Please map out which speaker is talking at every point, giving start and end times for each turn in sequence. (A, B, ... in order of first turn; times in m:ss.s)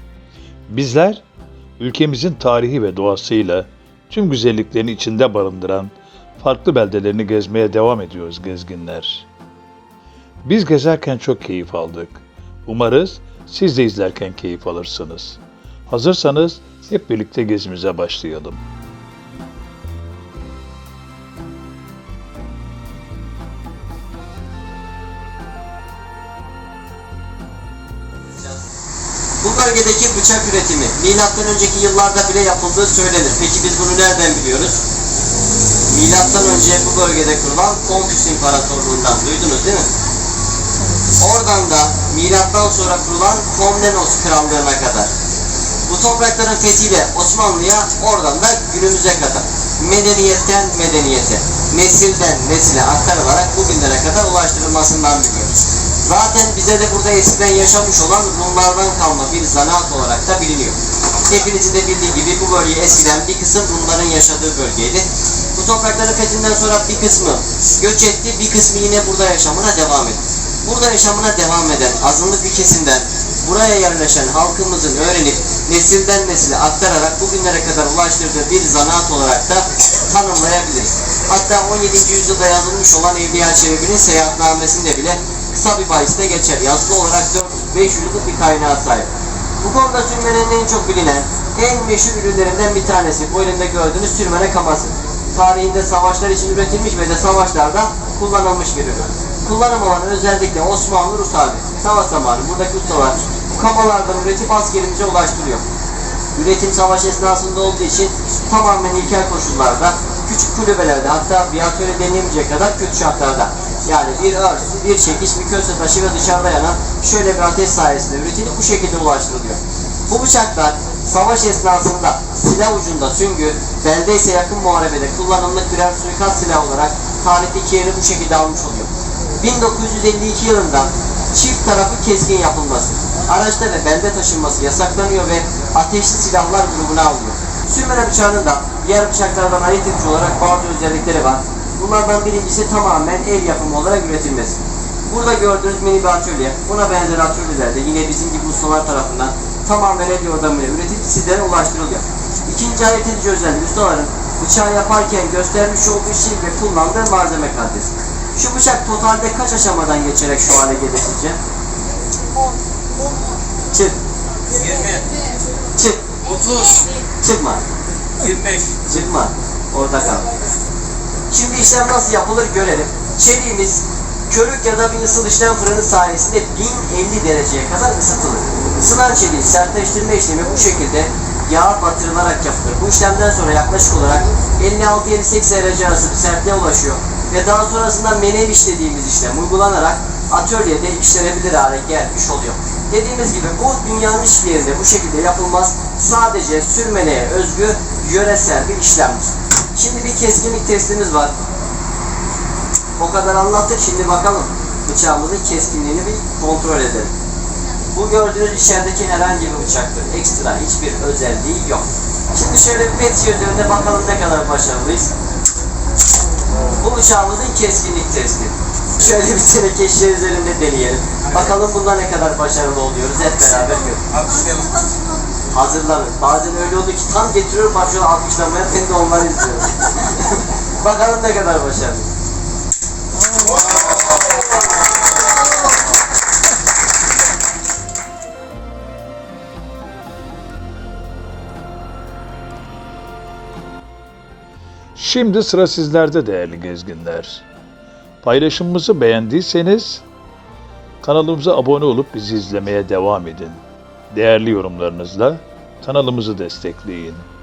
0:00.7-0:01.2 A
0:01.8-0:09.3 A
0:10.4-0:18.6 A
0:29.4-0:34.8 B
0:35.9-0:39.9 B
0:41.2-0:45.1 B
0:45.9-0:55.5 B
0:56.0-1:00.8 B
1:01.3-1:29.1 B
1:29.6-1:45.6 B
1:46.4-2:41.4 B
2:43.7-2:44.0 B
2:44.6-2:45.1 C
2:45.7-2:46.2 B
2:46.3-2:46.9 C
2:47.2-2:47.6 B
2:48.3-2:48.6 C
2:48.8-2:50.3 B
2:51.3-3:21.3 B
3:23.0-3:27.1 B
3:27.9-3:35.1 B
3:36.7-3:44.2 B
3:44.3-3:44.8 C
3:45.5-3:52.1 B
4:05.0-4:07.4 A
4:08.2-4:10.0 A
4:11.0-4:17.3 A